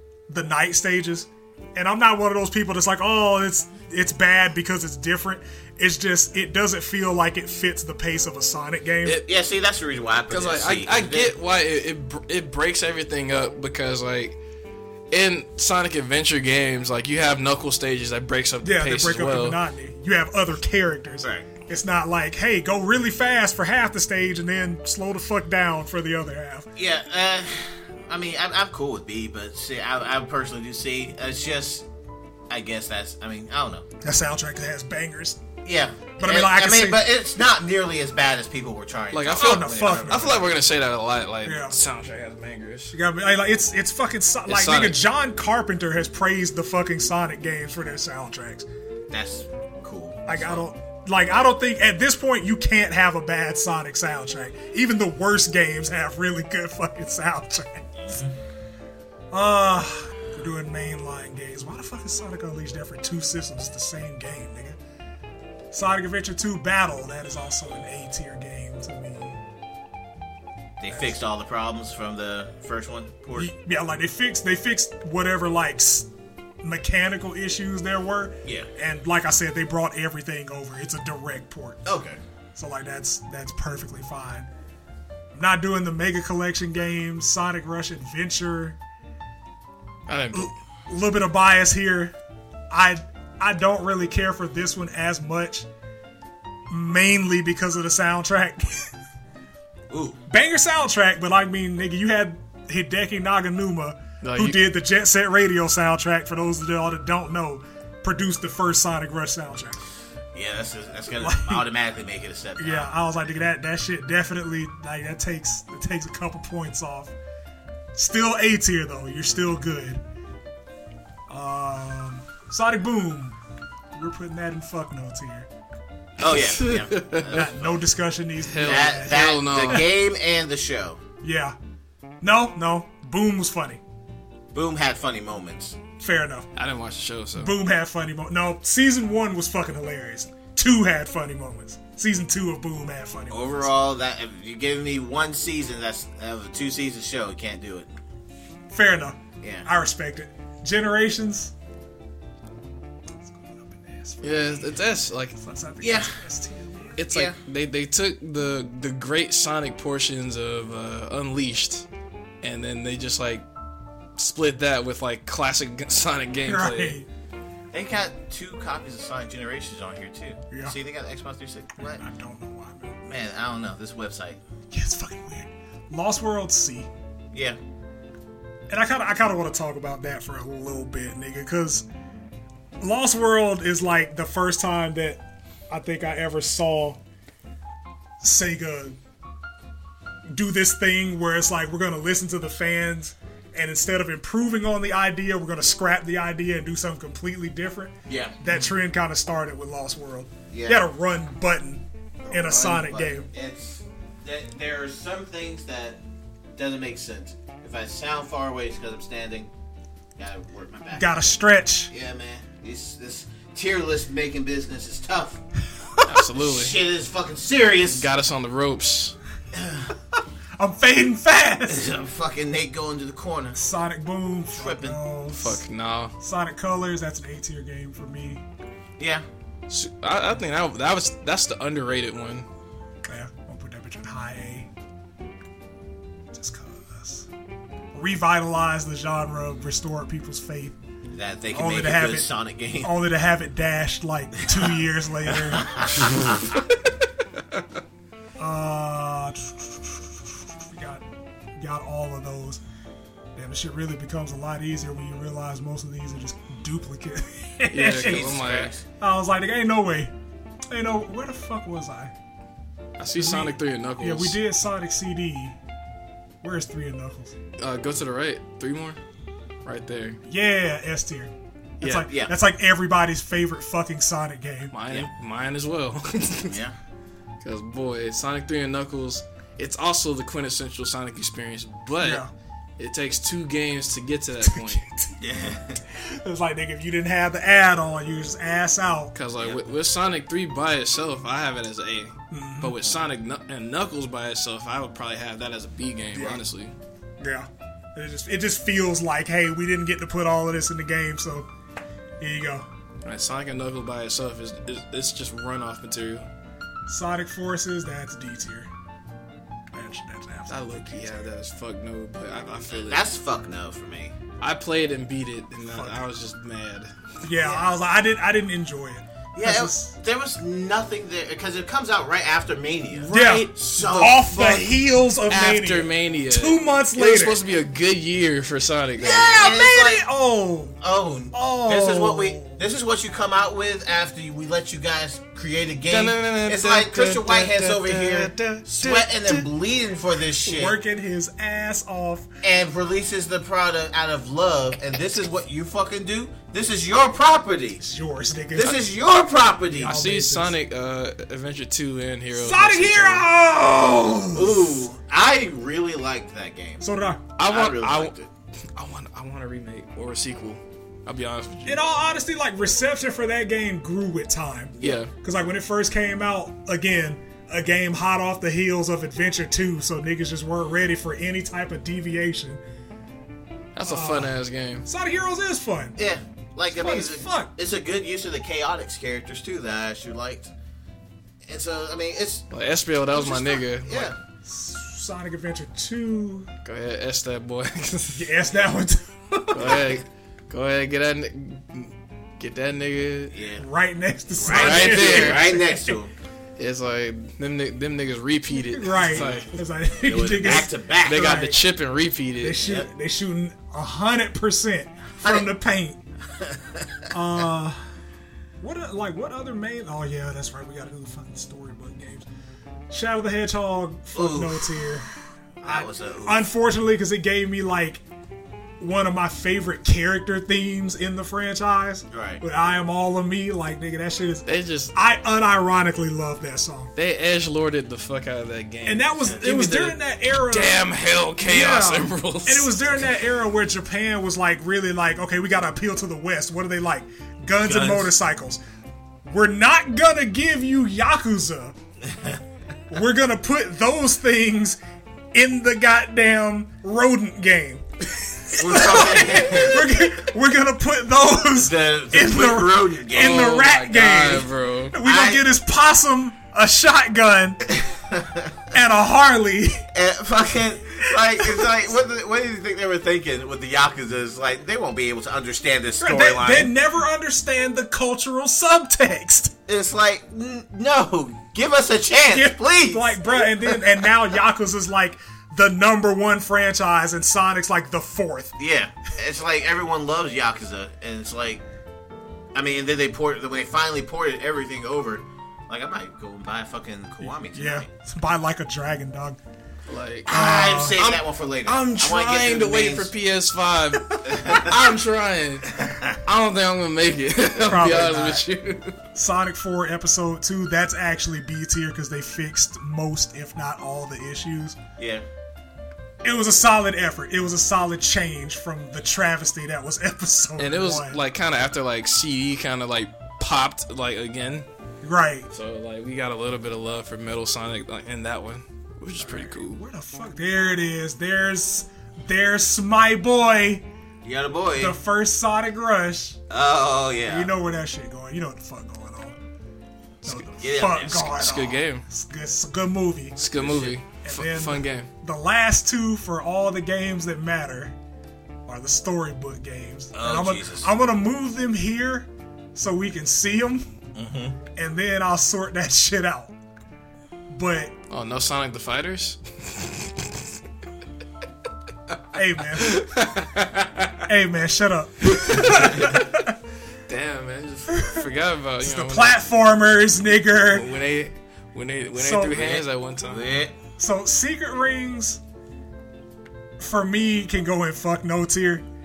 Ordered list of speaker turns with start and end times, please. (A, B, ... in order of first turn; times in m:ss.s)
0:00.3-0:09.2 A
0:09.2-0:11.3 B
0:10.3-0:14.4 C
0:15.1-0:19.6 C
0:18.6-0:26.7 A
0:21.2-0:21.5 B
0:26.8-0:31.8 B
0:32.5-0:33.8 B
0:34.0-0:35.4 A
0:35.6-0:40.5 B
0:36.2-0:37.0 A
0:39.1-0:42.9 C
0:39.3-0:40.4 A
0:41.4-0:41.7 A
0:42.9-0:48.6 A
0:44.5-0:45.0 C
0:49.1-0:50.6 B
0:50.3-0:58.2 A
0:59.3-1:04.8 A
1:05.7-1:09.4 A
1:10.8-1:13.5 B
1:13.4-1:16.1 A
1:16.6-1:21.8 A
1:21.8-1:22.2 B
1:22.6-1:24.5 A
1:25.3-1:28.8 A
1:30.1-1:30.5 C
1:30.3-1:32.1 A
1:32.7-1:35.7 A
1:36.7-1:38.9 A
1:39.9-1:40.2 B
1:40.3-1:49.8 A
1:44.2-1:44.6 C
1:50.3-1:52.9 B
1:51.2-1:51.6 A
1:52.6-1:57.1 A
1:57.9-2:00.0 A
2:01.3-2:03.4 A
2:03.9-2:05.5 A
2:06.2-2:07.8 B
2:06.2-2:07.4 C
2:07.3-2:09.2 A
2:08.4-2:09.9 C
2:08.6-2:11.0 B
2:11.2-2:11.6 A
2:12.2-2:13.8 A
2:14.5-2:15.8 B
2:16.0-2:16.5 A
2:16.6-2:17.5 C
2:17.4-2:23.7 A
2:23.3-2:27.9 B
2:28.7-2:31.5 A
2:29.4-2:29.7 B
2:33.2-2:34.8 A
2:34.2-2:35.4 C
2:35.4-2:37.0 A
2:35.8-2:36.2 B
2:37.0-2:41.8 C
2:37.1-2:37.4 B
2:42.4-2:43.4 C
2:44.2-2:46.9 C
2:46.5-2:47.1 A
2:47.7-2:52.0 B
2:50.5-2:50.8 A
2:51.8-2:53.0 A
2:53.0-2:54.4 B
2:54.7-2:56.9 A
2:57.3-2:57.6 B
2:58.7-3:01.8 A
3:02.8-3:07.0 A
3:08.2-3:09.0 A
3:10.3-3:23.3 A
3:18.1-3:18.4 B
3:20.5-3:20.8 B
3:22.2-3:26.0 B
3:26.5-3:29.5 B
3:30.2-3:31.1 B
3:30.9-3:31.9 A
3:31.9-3:35.4 B
3:36.0-3:36.7 C
3:36.3-3:38.1 B
3:37.9-3:39.1 C
3:39.5-3:39.9 B
3:40.6-3:41.9 A
3:41.7-3:43.6 B
3:43.6-3:45.6 A
3:44.5-3:45.0 B
3:45.3-3:46.1 C
3:46.2-3:48.4 A
3:49.0-3:49.2 B
3:49.7-3:52.4 C
3:53.0-3:54.7 A
3:56.3-3:57.3 A
3:57.9-4:00.8 A
4:01.1-4:03.0 B
4:01.5-4:02.3 A
4:02.8-4:05.9 A
4:05.3-4:06.5 B
4:08.4-4:11.0 A
4:11.6-4:12.6 A
4:13.4-4:18.3 A
4:17.7-4:18.7 C
4:17.9-4:18.8 B
4:19.0-4:20.1 A
4:20.7-4:22.1 A
4:23.0-4:24.4 C
4:23.2-4:25.6 A
4:26.4-4:27.3 A
4:27.6-4:29.0 C
4:29.6-4:30.2 C
4:30.3-4:34.7 A
4:31.8-4:32.1 C
4:32.1-4:32.3 B
4:34.7-4:36.6 C
4:36.4-4:36.7 B
4:37.4-4:42.2 C
4:42.0-4:42.3 A
4:42.8-4:44.8 C
4:44.4-4:45.2 A
4:45.2-4:45.8 B
4:45.9-4:49.1 A
4:49.1-4:56.7 C
4:49.4-4:49.7 B
4:52.3-4:52.7 A
4:56.1-4:56.4 A
4:57.2-5:01.5 A
5:02.2-5:02.7 A
5:03.0-5:06.3 C
5:06.9-5:08.7 A
5:09.7-5:11.3 A
5:10.5-5:13.0 C
5:12.7-5:14.1 B
5:14.4-5:16.9 C
5:15.7-5:16.0 A
5:17.2-5:19.9 A
5:17.4-5:17.7 B
5:19.3-5:24.6 B
5:23.0-5:24.6 C
5:23.1-5:27.4 A
5:25.3-5:29.2 C
5:29.0-5:30.0 B
5:29.0-5:30.8 A
5:30.8-5:40.8 B
5:31.3-5:32.6 A
5:35.9-5:39.5 C
5:40.4-5:42.3 A
5:42.4-5:47.8 B
5:47.8-5:48.8 A
5:48.5-5:50.0 B
5:49.7-5:50.6 A
5:49.8-5:53.3 C
5:52.3-5:54.7 A
5:54.3-5:56.8 B
5:56.8-5:57.2 A
5:57.4-5:58.1 C
5:57.4-5:58.3 B
5:58.8-6:01.8 C
6:01.6-6:12.6 A
6:04.8-6:05.0 B
6:04.8-6:05.1 C
6:13.7-6:14.8 C
6:13.8-6:16.0 A
6:16.0-6:20.5 B
6:16.7-6:17.6 A
6:21.4-6:22.4 B
6:22.5-6:24.1 C
6:23.1-6:24.2 B
6:24.4-6:26.5 A
6:26.6-6:28.3 C
6:28.1-6:29.8 A
6:29.5-6:33.4 C
6:29.6-6:29.8 B
6:33.3-6:33.6 B
6:33.6-6:35.9 A
6:34.4-6:36.1 B
6:34.5-6:35.5 C
6:36.6-6:39.5 C
6:38.5-6:41.6 A
6:39.1-6:39.4 B
6:40.0-6:41.5 B
6:40.5-6:42.6 C
6:42.4-6:46.0 A
6:42.6-6:42.9 B
6:45.2-6:45.5 B
6:46.4-6:47.0 B
6:47.1-6:47.8 A
6:48.6-6:52.3 A
6:52.9-6:55.1 A
6:54.1-6:54.7 B
6:55.6-6:58.0 A
6:55.6-6:56.5 B
6:58.8-7:06.9 A
7:02.1-7:02.4 B
7:04.4-7:04.9 C
7:07.0-7:13.1 C
7:08.8-7:10.8 A
7:11.4-7:18.6 A
7:17.6-7:18.1 B
7:19.3-7:21.7 A
7:22.9-7:24.8 A
7:25.3-7:37.6 A
7:28.6-7:30.1 B
7:31.6-7:33.6 B
7:33.1-7:35.0 C
7:35.0-7:35.4 B
7:37.7-7:38.6 B
7:38.7-7:39.9 A
7:39.9-7:46.7 B
7:41.0-7:41.7 A
7:46.0-7:49.5 A
7:49.7-7:53.8 B
7:52.3-7:58.6 A
7:58.6-8:01.6 B
8:02.5-8:07.9 B
8:07.5-8:09.4 A
8:09.9-8:19.0 C
8:10.3-8:13.1 B
8:10.3-8:11.0 A
8:14.2-8:14.8 B
8:15.8-8:16.1 B
8:17.6-8:18.4 A
8:19.1-8:24.8 A
8:25.0-8:25.2 B
8:26.2-8:31.2 A
8:30.6-8:34.6 C
8:35.0-8:35.5 A
8:35.5-8:39.8 C
8:39.2-8:43.8 A
8:44.2-8:45.0 B
8:44.8-8:46.4 A
8:46.5-8:47.5 B
8:47.3-8:49.4 A
8:50.2-8:53.4 A
8:50.3-8:51.4 B
8:51.3-8:52.0 C
8:53.4-8:55.1 C
8:53.6-8:54.0 B
8:54.2-8:57.9 A
8:58.7-9:03.9 A
9:00.1-9:00.9 B
9:04.1-9:04.6 B
9:04.7-9:06.5 A
9:07.5-9:07.9 A
9:08.1-9:10.4 C
9:12.3-9:13.0 A
9:12.8-9:14.2 C
9:14.3-9:16.4 A
9:15.3-9:16.3 C
9:17.1-9:19.4 C
9:17.9-9:18.2 A
9:18.8-9:20.8 A
9:20.7-9:23.5 C
9:22.2-9:22.8 A
9:22.6-9:23.7 B
9:24.0-9:25.4 A
9:26.8-9:28.8 A